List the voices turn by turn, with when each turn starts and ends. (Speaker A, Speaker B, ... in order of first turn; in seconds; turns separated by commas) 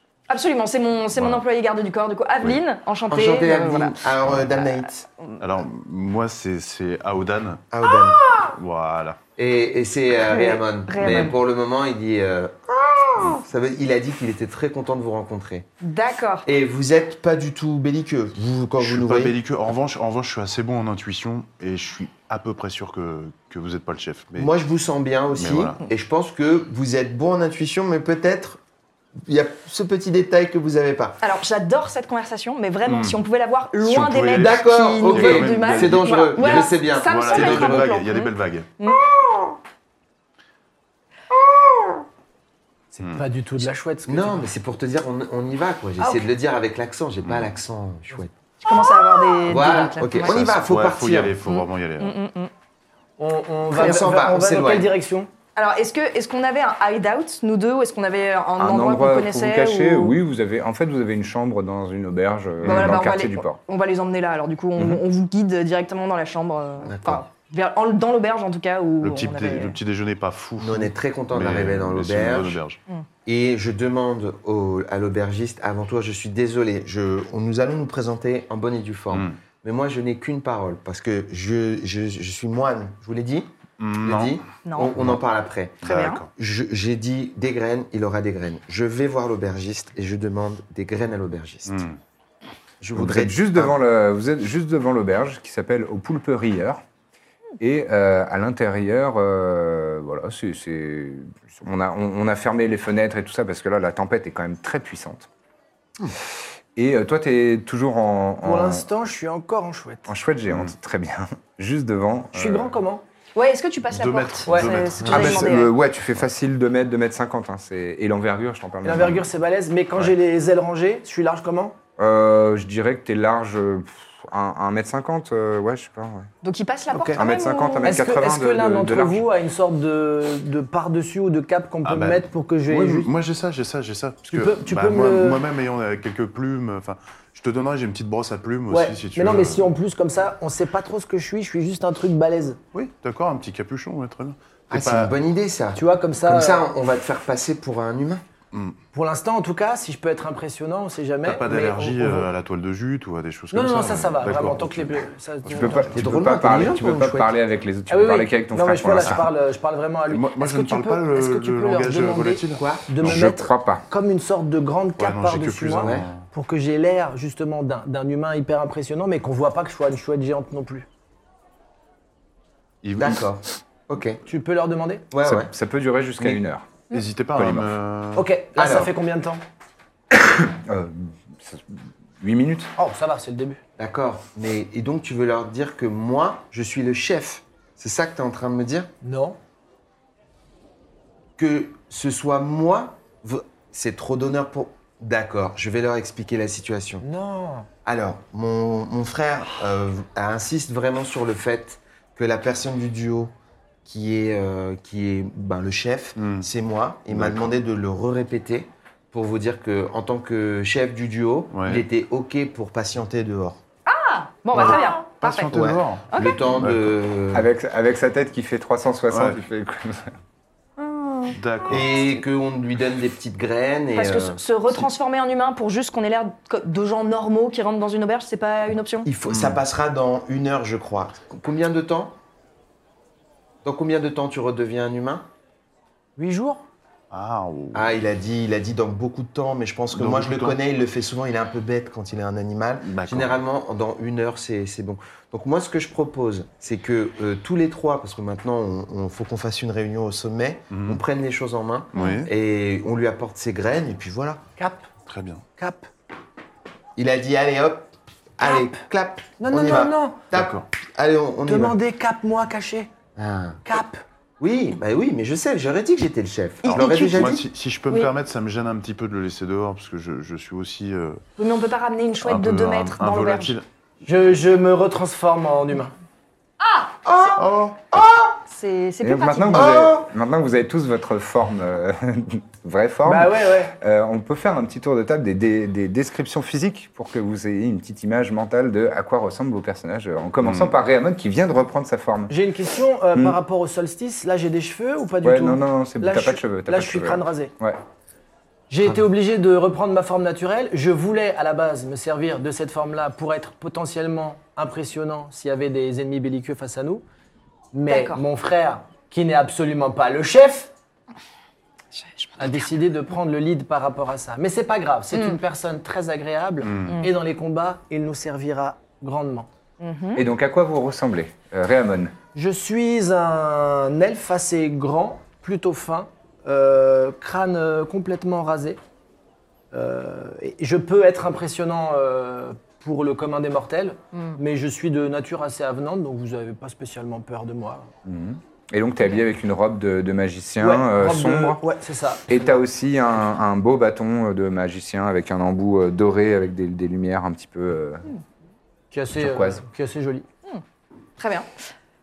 Speaker A: 0.3-4.1, Speaker B: 1.1-1.4, Speaker C: 3.1-5.1, Speaker B: 5.4-7.6, Speaker C: 7.7-8.2, Speaker A: 8.1-8.5, Speaker B: 8.5-9.2, Speaker C: 9.4-15.7, Speaker A: 10.3-11.4, Speaker A: 15.8-16.5, Speaker C: 16.5-19.4, Speaker B: 18.8-24.5, Speaker C: 24.4-28.6, Speaker B: 25.3-25.8, Speaker C: 29.2-31.2, Speaker A: 31.2-39.0, Speaker B: 32.9-33.2, Speaker B: 33.8-38.7, Speaker C: 34.4-38.0, Speaker D: 42.9-44.5, Speaker C: 44.1-48.3, Speaker B: 47.2-47.5, Speaker A: 48.6-50.4, Speaker C: 49.5-51.4, Speaker B: 50.2-52.2, Speaker A: 51.4-52.5, Speaker D: 53.2-55.3, Speaker C: 53.7-54.9, Speaker A: 55.6-60.2, Speaker E: 58.6-63.6, Speaker B: 62.6-63.1, Speaker A: 62.7-69.8, Speaker E: 64.8-65.0, Speaker C: 66.8-67.2, Speaker B: 69.0-72.8, Speaker C: 70.6-72.6, Speaker C: 73.2-85.8, Speaker B: 79.1-79.4, Speaker B: 83.8-84.4, Speaker A: 84.7-85.0, Speaker A: 85.8-86.2, Speaker B: 85.8-86.3, Speaker C: 86.4-91.8, Speaker B: 91.7-92.0, Speaker C: 92.8-93.8, Speaker E: 93.0-96.8, Speaker E: 97.6-105.3, Speaker E: 106.8-108.9, Speaker D: 108.4-110.1, Speaker E: 110.1-112.8, Speaker D: 112.3-113.0, Speaker A: 113.3-115.7, Speaker B: 113.9-115.6, Speaker C: 115.0-115.3, Speaker E: 115.1-119.2, Speaker D: 118.8-121.8, Speaker E: 122.0-126.3, Speaker A: 126.4-128.0, Speaker E: 127.2-129.2, Speaker D: 127.8-133.1, Speaker B: 131.8-139.7, Speaker D: 134.3-135.4, Speaker D: 138.7-142.6, Speaker B: 142.7-145.1, Speaker C: 144.7-148.2, Speaker D: 145.8-146.7, Speaker D: 148.9-152.3, Speaker B: 151.2-156.0, Speaker D: 153.5-155.9, Speaker E: 155.5-159.2, Speaker C: 155.9-157.3, Speaker D: 157.9-170.9, Speaker B: 160.1-163.1, Speaker C: 162.6-162.9, Speaker E: 163.0-163.8, Speaker B: 165.0-166.3, Speaker B: 172.8-173.2, Speaker C: 173.0-174.2, Speaker D: 174.3-175.0, Speaker C: 175.1-175.5, Speaker E: 175.2-177.7, Speaker B: 176.9-178.3, Speaker D: 178.2-179.4, Speaker E: 178.6-178.9, Speaker E: 180.1-182.7, Speaker D: 182.8-183.6, Speaker C: 183.8-188.9, Speaker D: 189.0-189.4, Speaker C: 191.4-197.0, Speaker D: 197.0-197.7, Speaker C: 197.8-203.3, Speaker C: 203.9-213.6, Speaker B: 206.2-206.5, Speaker B: 207.1-207.5, Speaker B: 211.5-211.8, Speaker A: 213.9-215.6, Speaker B: 214.5-217.0, Speaker C: 214.6-214.9, Speaker C: 215.5-217.5, Speaker A: 216.1-216.4, Speaker E: 217.3-220.2, Speaker B: 219.1-219.4, Speaker B: 221.3-222.1, Speaker C: 221.7-224.4, Speaker A: 223.9-229.1, Speaker C: 229.1-232.2, Speaker B: 229.3-229.6, Speaker C: 233.7-235.2, Speaker D: 236.2-236.7, Speaker B: 237.1-237.9, Speaker C: 237.7-254.4, Speaker B: 239.9-240.6, Speaker B: 242.8-243.4, Speaker B: 250.7-251.0, Speaker B: 251.9-252.3, Speaker D: 254.6-254.9, Speaker B: 255.1-255.4, Speaker D: 255.6-255.9, Speaker C: 257.0-261.8, Speaker D: 258.4-258.8, Speaker D: 259.4-260.2, Speaker B: 260.3-260.7, Speaker D: 261.5-262.9, Speaker C: 263.2-263.6, Speaker D: 263.6-264.0, Speaker C: 264.4-267.5, Speaker A: 266.6-267.3, Speaker B: 266.7-271.2, Speaker A: 271.4-273.6, Speaker B: 272.2-273.6, Speaker D: 274.1-275.9, Speaker A: 276.6-277.4, Speaker C: 277.1-278.4, Speaker B: 277.4-277.9, Speaker A: 278.5-279.9, Speaker E: 279.0-292.4, Speaker C: 279.5-280.1, Speaker D: 283.1-283.8, Speaker B: 290.4-290.7, Speaker D: 292.3-297.5, Speaker E: 295.2-297.8, Speaker D: 298.7-307.0, Speaker D: 307.7-310.7, Speaker A: 307.9-308.2, Speaker A: 311.9-312.7, Speaker D: 312.4-319.5, Speaker B: 316.6-317.0, Speaker A: 316.9-317.1, Speaker A: 319.8-320.2, Speaker E: 320.1-322.1, Speaker D: 322.4-328.8, Speaker D: 329.7-337.9, Speaker A: 334.1-334.4, Speaker E: 338.1-341.6, Speaker D: 340.6-342.6, Speaker E: 342.3-348.1, Speaker D: 348.9-350.3, Speaker E: 349.2-349.6, Speaker A: 351.2-351.5